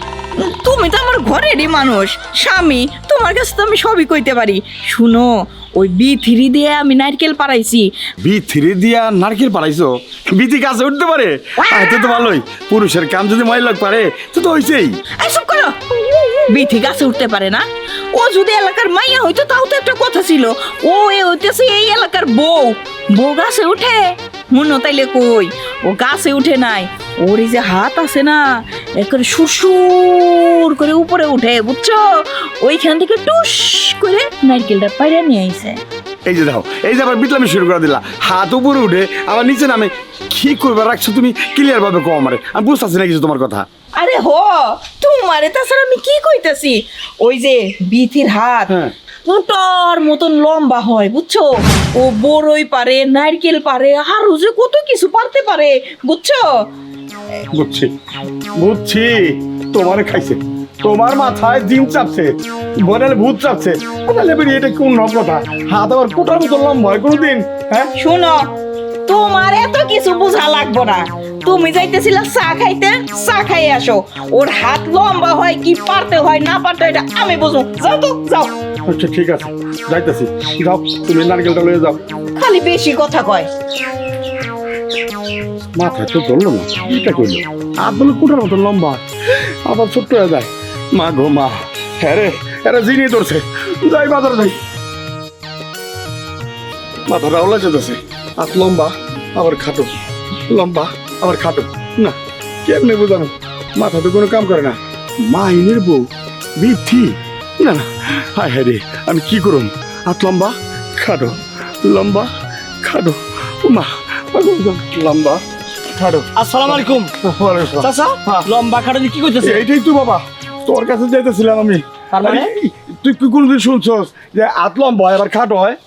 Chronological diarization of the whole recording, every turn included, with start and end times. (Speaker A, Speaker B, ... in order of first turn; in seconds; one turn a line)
Speaker A: 0.4-7.9
Speaker B: 8.2-15.0
Speaker A: 15.2-15.8
Speaker A: 16.5-35.8
Speaker B: 36.2-43.6
Speaker A: 44.0-48.7
Speaker A: 49.2-56.7
Speaker B: 57.5-57.9
Speaker B: 58.6-62.3
Speaker B: 62.8-67.9
Speaker A: 68.0-68.5
Speaker A: 69.1-78.5
Speaker B: 78.9-82.0
Speaker A: 82.3-83.5
Speaker B: 85.7-94.6
Speaker B: 97.1-99.9
Speaker B: 100.5-112.3
Speaker B: 112.8-118.5
Speaker C: 116.4-117.1
Speaker C: 117.8-119.6
Speaker B: 119.4-125.8
Speaker C: 122.1-122.5